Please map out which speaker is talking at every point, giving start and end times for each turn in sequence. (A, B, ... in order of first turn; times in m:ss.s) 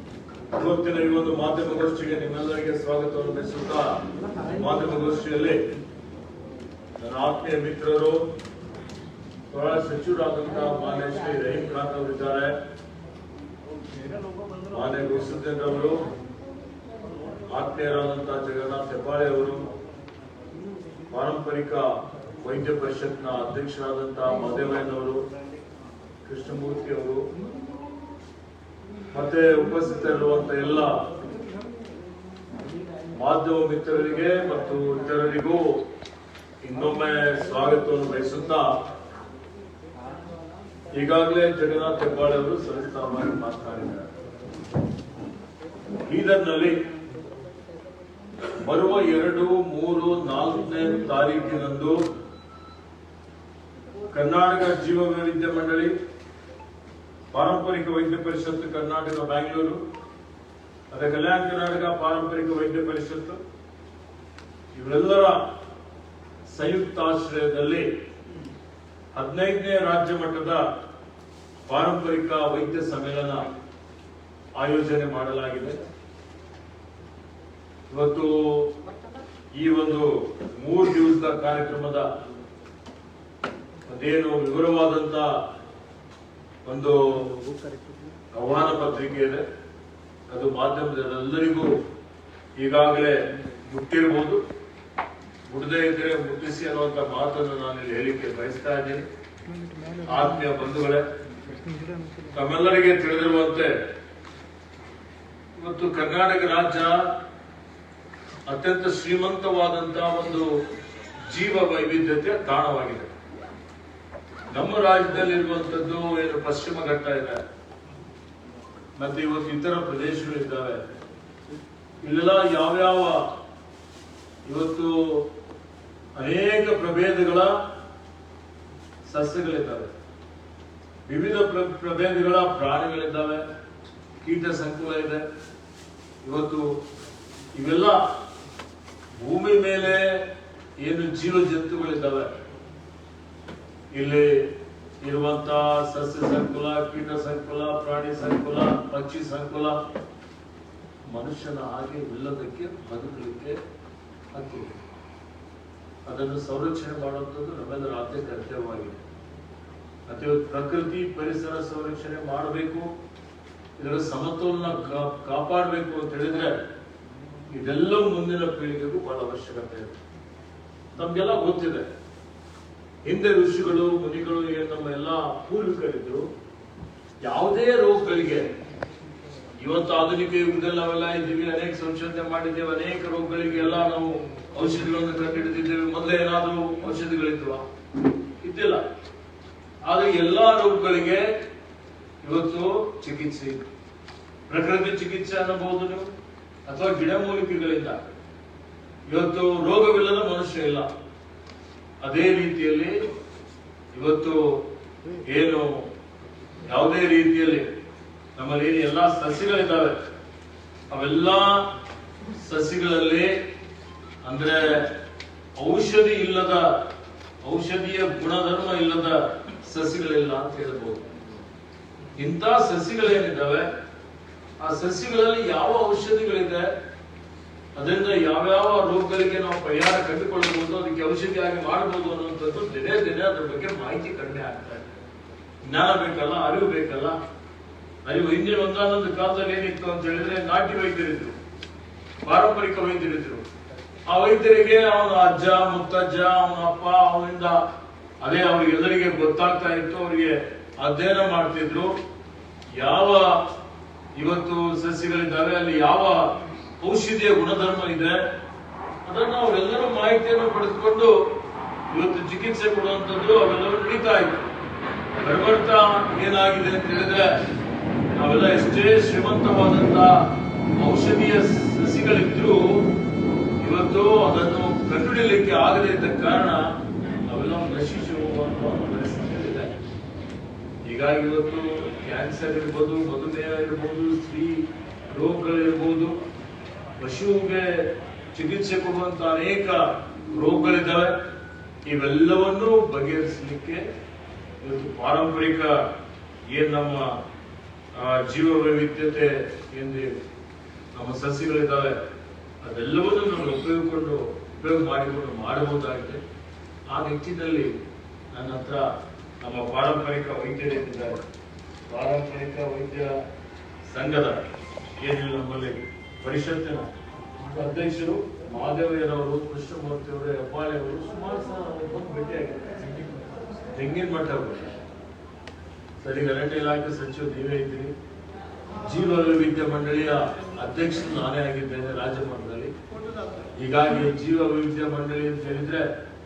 0:00.5-0:04.0 A
0:04.5-0:05.6 A
0:07.0-0:08.2 A
0:09.5-0:12.6 A
0:14.7-0:16.0 A
0:17.5-0:19.7 A
0:21.1-0:21.8 A
0:22.4-0:25.2 A
0:26.2-0:27.2 A
0:29.1-0:31.0 A
0:33.2-0:35.8 A
0:36.6-0:38.7 A
0:40.9-0:44.1 A
0:46.1-0:46.8 A
0:48.6-0:52.0 A
0:54.1-0:55.9 A
0:57.3-0:59.8 A
1:00.9-1:03.4 A
1:04.7-1:05.4 A
1:06.4-1:07.9 A
1:09.1-1:10.7 A
1:11.6-1:13.5 A
1:14.6-1:15.8 A
1:17.9-1:18.7 A
1:19.6-1:22.1 A
1:23.9-1:25.4 A
1:26.6-1:27.4 A
1:28.3-1:29.4 A
1:30.3-1:31.7 A
1:32.6-1:34.4 A
1:35.5-1:39.0 A
1:40.0-1:41.1 A
1:42.3-1:43.8 A
1:45.6-1:47.1 A
1:48.5-1:50.6 A
1:51.2-1:53.1 A
1:54.5-1:57.4 A
1:59.0-2:00.8 A
2:02.0-2:03.3 A
2:04.4-2:05.3 A
2:06.1-2:07.6 A
2:09.0-2:09.9 A
2:11.0-2:13.4 A
2:14.2-2:15.2 A
2:16.2-2:16.8 A
2:17.5-2:18.0 A
2:19.2-2:20.2 A
2:20.8-2:22.3 A
2:23.9-2:24.5 A
2:25.0-2:29.8 A
2:31.1-2:33.6 A
2:34.3-2:34.8 A
2:36.0-2:39.0 A
2:40.1-2:42.9 A
2:43.8-2:46.6 A
2:47.5-2:50.0 A
2:50.9-2:51.9 A
2:53.0-2:56.2 A
2:57.2-2:58.5 A
2:59.6-3:07.6 A
3:08.4-3:08.8 A
3:09.8-3:11.3 A
3:12.2-3:13.6 A
3:14.5-3:16.1 A
3:16.7-3:18.0 A
3:19.1-3:20.9 A
3:22.0-3:23.0 A
3:23.9-3:24.6 A
3:25.2-3:25.9 A
3:26.6-3:27.7 A
3:28.4-3:30.0 A
3:30.9-3:31.7 A
3:32.3-3:33.4 A
3:34.2-3:34.9 A
3:35.6-3:36.8 A
3:37.4-3:41.1 A
3:42.2-3:43.7 A
3:44.6-3:46.7 A
3:47.8-3:54.8 A
3:55.6-3:57.2 A
3:58.0-4:01.4 A
4:02.2-4:03.4 A
4:04.1-4:07.6 A
4:08.2-4:12.0 A
4:12.7-4:13.4 A
4:14.1-4:18.2 A
4:19.0-4:21.1 A
4:21.9-4:24.4 A
4:25.2-4:27.4 A
4:28.2-4:32.9 A
4:33.6-4:36.7 A
4:37.3-4:39.8 A
4:40.8-4:46.2 A
4:47.0-4:51.1 A
4:51.8-4:53.8 A
4:54.6-4:55.8 A
4:56.5-4:57.2 A
4:57.9-5:00.2 A
5:00.9-5:02.0 A
5:02.6-5:06.2 A
5:06.9-5:07.7 A
5:08.3-5:08.9 A
5:09.4-5:11.2 A
5:11.9-5:13.2 A
5:13.8-5:14.4 A
5:15.0-5:16.8 A
5:17.5-5:22.9 A
5:23.7-5:24.7 A
5:26.0-5:27.9 A
5:28.8-5:32.7 A
5:33.6-5:35.9 A